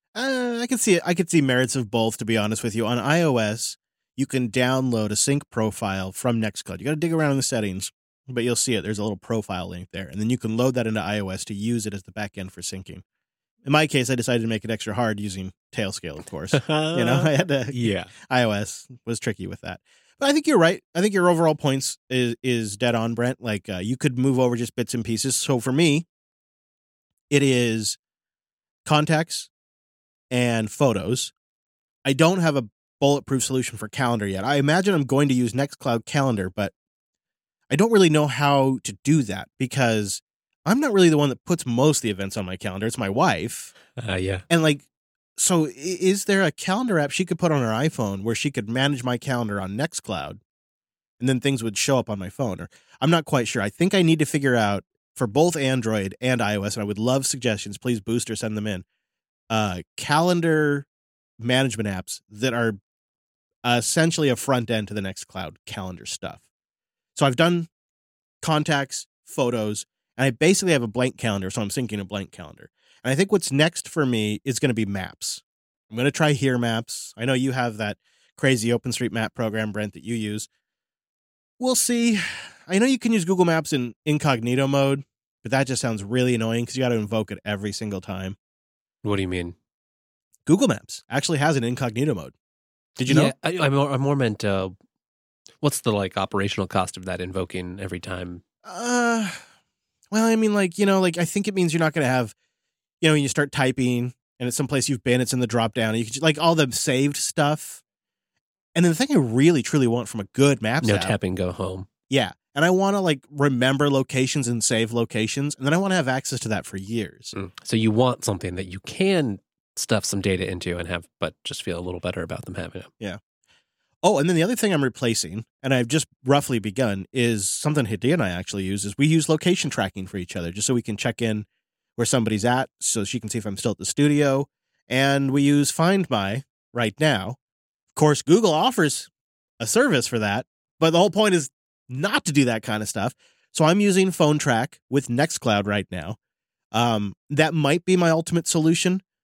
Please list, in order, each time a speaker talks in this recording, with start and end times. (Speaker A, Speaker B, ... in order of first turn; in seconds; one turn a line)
Speaker A: 0.1-13.0
Speaker A: 13.7-26.1
Speaker B: 16.5-18.1
Speaker A: 27.3-28.0
Speaker A: 28.9-29.5
Speaker A: 30.3-31.3
Speaker A: 32.0-36.7
Speaker A: 37.7-43.7
Speaker B: 44.0-44.4
Speaker A: 44.5-44.8
Speaker A: 45.4-50.4
Speaker A: 51.2-58.8
Speaker A: 59.5-60.9
Speaker A: 61.4-62.8
Speaker A: 63.6-66.4
Speaker A: 67.2-67.7
Speaker A: 68.4-80.5
Speaker A: 81.6-88.4
Speaker B: 89.0-89.6
Speaker A: 90.5-92.3
Speaker A: 93.0-93.3
Speaker B: 93.1-94.7
Speaker B: 95.6-98.4
Speaker A: 98.7-99.4
Speaker A: 100.1-102.3
Speaker A: 103.0-107.8
Speaker A: 108.7-111.2
Speaker B: 110.8-111.9
Speaker A: 112.1-117.3
Speaker B: 117.3-122.9
Speaker A: 124.0-131.5
Speaker A: 132.0-137.4
Speaker A: 137.9-139.1
Speaker A: 139.6-146.2
Speaker A: 146.7-149.0